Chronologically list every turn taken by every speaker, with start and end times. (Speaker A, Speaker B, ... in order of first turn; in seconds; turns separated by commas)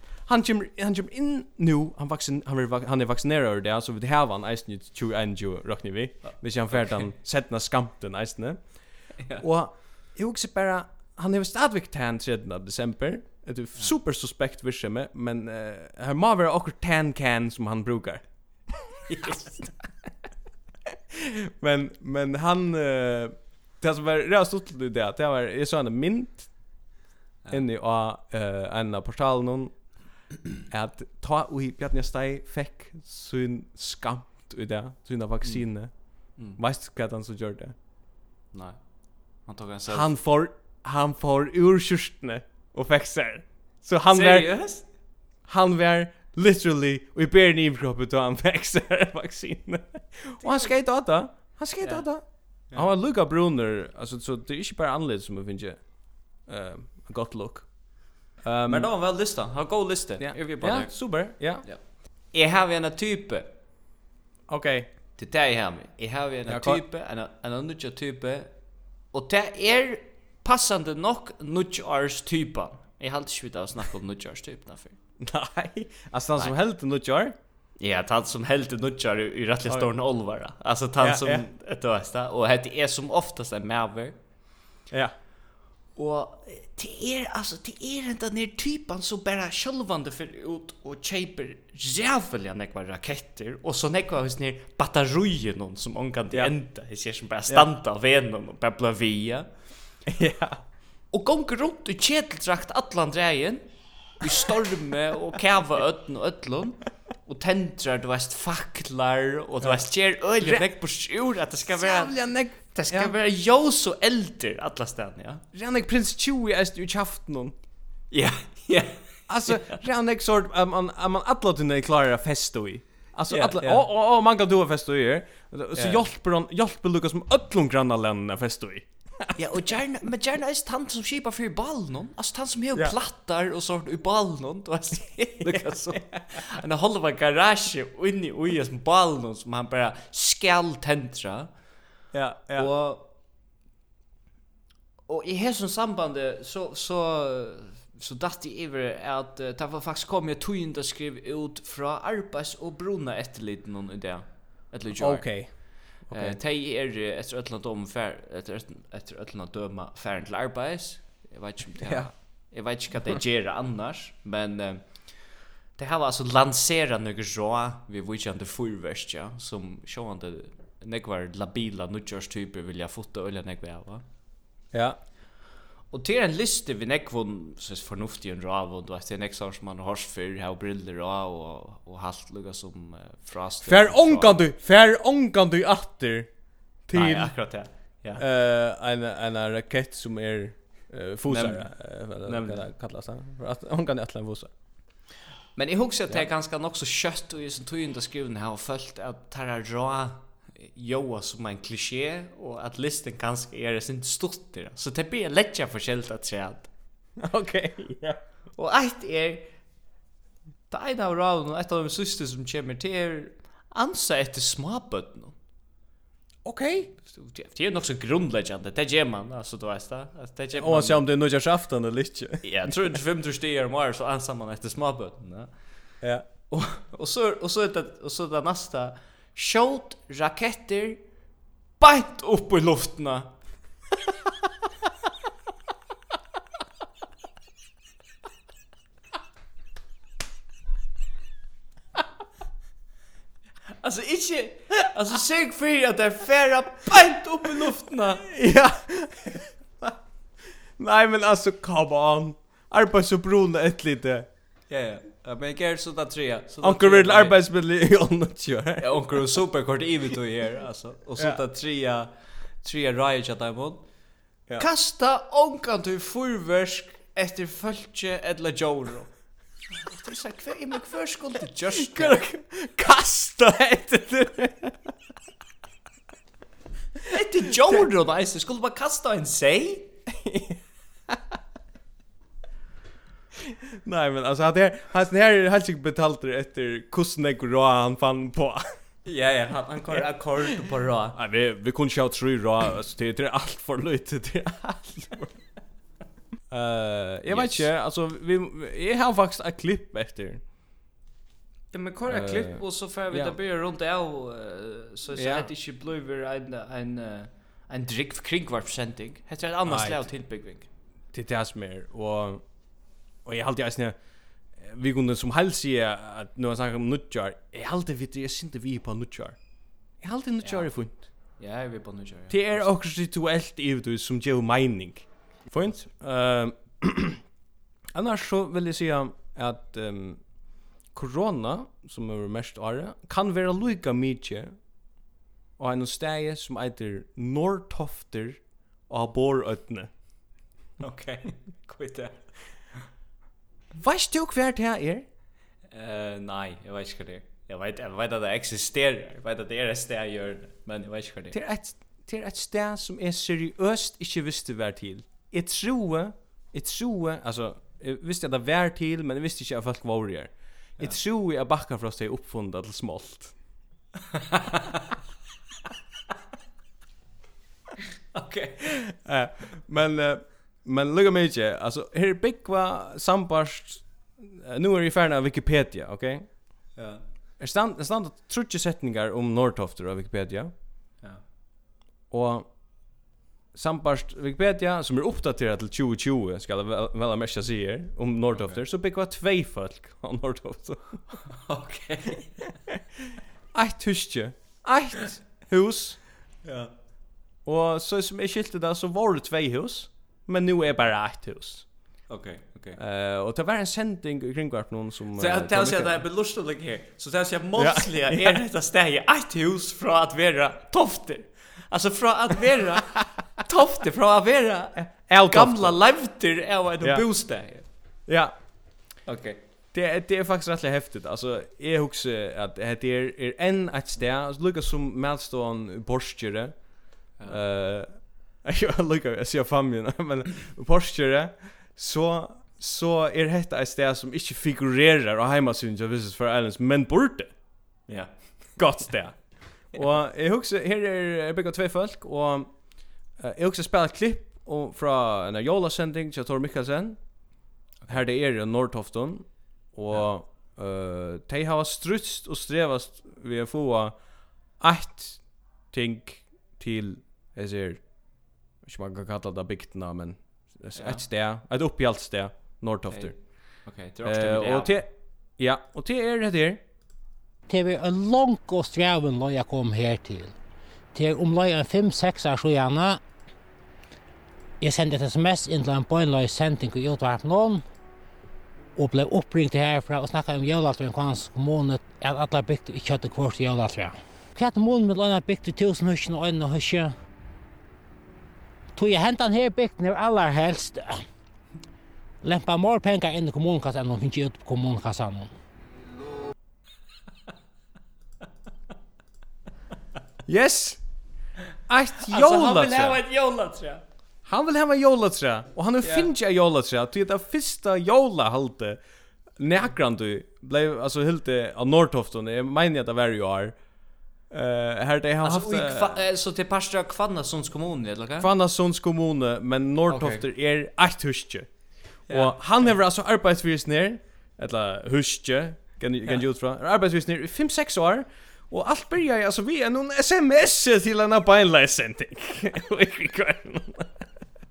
Speaker A: 0.2-8.6, Speaker B: 6.2-7.0, Speaker B: 9.2-9.4, Speaker A: 9.4-18.2, Speaker B: 19.1-19.7, Speaker A: 21.1-26.7, Speaker A: 27.5-30.0, Speaker A: 30.7-37.7, Speaker B: 35.4-36.6, Speaker B: 38.5-40.1, Speaker A: 39.9-44.7, Speaker B: 44.1-44.8, Speaker A: 45.4-58.9, Speaker B: 50.4-50.7, Speaker B: 51.8-52.1, Speaker B: 58.6-63.5, Speaker A: 60.2-61.7, Speaker A: 64.5-64.9, Speaker B: 65.2-68.5, Speaker A: 66.5-66.8, Speaker B: 69.1-75.0, Speaker A: 75.2-77.3, Speaker B: 77.8-84.2, Speaker A: 81.0-81.5, Speaker B: 86.0-99.5, Speaker A: 100.1-100.6, Speaker B: 101.1-115.4, Speaker A: 110.4-110.7, Speaker A: 111.7-113.1, Speaker A: 115.5-117.5, Speaker B: 118.1-119.8, Speaker A: 119.3-129.4, Speaker B: 123.3-123.8, Speaker B: 125.7-126.0, Speaker B: 129.3-141.5, Speaker A: 135.5-136.1, Speaker A: 142.1-142.7, Speaker B: 142.5-143.1, Speaker B: 145.1-174.0, Speaker A: 155.0-156.4, Speaker A: 161.8-162.1, Speaker A: 174.7-175.0, Speaker B: 175.9-184.4, Speaker A: 183.6-186.3, Speaker A: 186.8-187.4, Speaker B: 186.9-188.2, Speaker A: 188.2-194.5, Speaker B: 191.3-192.6, Speaker B: 195.6-206.7, Speaker A: 207.2-208.2, Speaker B: 208.6-209.5, Speaker B: 210.7-215.3, Speaker A: 216.4-216.9, Speaker B: 217.0-221.0, Speaker A: 220.5-223.0, Speaker B: 222.4-225.9, Speaker B: 226.5-231.0, Speaker B: 231.8-233.3, Speaker B: 243.8-248.2, Speaker A: 248.2-250.0, Speaker A: 250.8-254.3, Speaker B: 254.7-257.4, Speaker A: 256.6-259.0, Speaker B: 258.8-263.9, Speaker B: 264.6-269.1, Speaker B: 269.7-272.2, Speaker A: 271.9-274.9, Speaker B: 277.1-279.9, Speaker A: 280.1-280.6, Speaker A: 281.1-281.4, Speaker A: 283.5-288.7, Speaker B: 289.0-291.2, Speaker A: 291.1-295.4, Speaker A: 296.5-300.4, Speaker B: 297.3-297.7, Speaker B: 301.7-310.7, Speaker A: 302.1-303.4, Speaker A: 305.1-305.5, Speaker A: 309.6-310.1, Speaker A: 311.1-312.4, Speaker A: 313.2-314.0, Speaker A: 314.6-319.4, Speaker A: 320.0-321.0, Speaker B: 320.4-320.7, Speaker B: 321.4-322.7, Speaker A: 322.3-327.2, Speaker A: 327.9-334.6, Speaker A: 335.6-339.9, Speaker B: 340.8-342.8, Speaker A: 343.7-345.1, Speaker B: 345.7-351.4, Speaker A: 351.3-363.4, Speaker B: 364.3-364.6, Speaker B: 368.1-368.6, Speaker A: 368.8-376.4, Speaker B: 376.8-377.0, Speaker A: 377.4-380.5, Speaker A: 382.1-382.5, Speaker A: 383.5-391.2, Speaker B: 388.3-388.6, Speaker B: 391.3-392.5, Speaker A: 393.5-396.0, Speaker B: 396.4-396.7, Speaker A: 397.4-401.7, Speaker B: 402.1-402.8, Speaker A: 402.8-406.0, Speaker B: 405.1-417.7, Speaker A: 407.6-408.4, Speaker A: 414.8-415.8, Speaker A: 418.1-418.3, Speaker B: 419.0-419.4, Speaker A: 419.7-437.4, Speaker B: 437.9-438.9, Speaker A: 438.5-463.1, Speaker B: 460.7-461.0, Speaker B: 462.9-464.8, Speaker A: 464.0-466.6, Speaker C: 467.5-470.3, Speaker C: 470.9-473.0, Speaker C: 474.6-477.6, Speaker C: 478.8-486.9, Speaker C: 488.7-491.0, Speaker C: 492.2-495.3, Speaker A: 500.2-500.8, Speaker A: 501.7-503.0, Speaker B: 502.1-503.8, Speaker A: 504.2-508.8, Speaker B: 505.8-506.1, Speaker A: 509.4-513.6, Speaker A: 514.3-516.0, Speaker B: 515.2-518.3, Speaker A: 518.2-534.0, Speaker B: 519.9-520.2, Speaker B: 522.1-522.7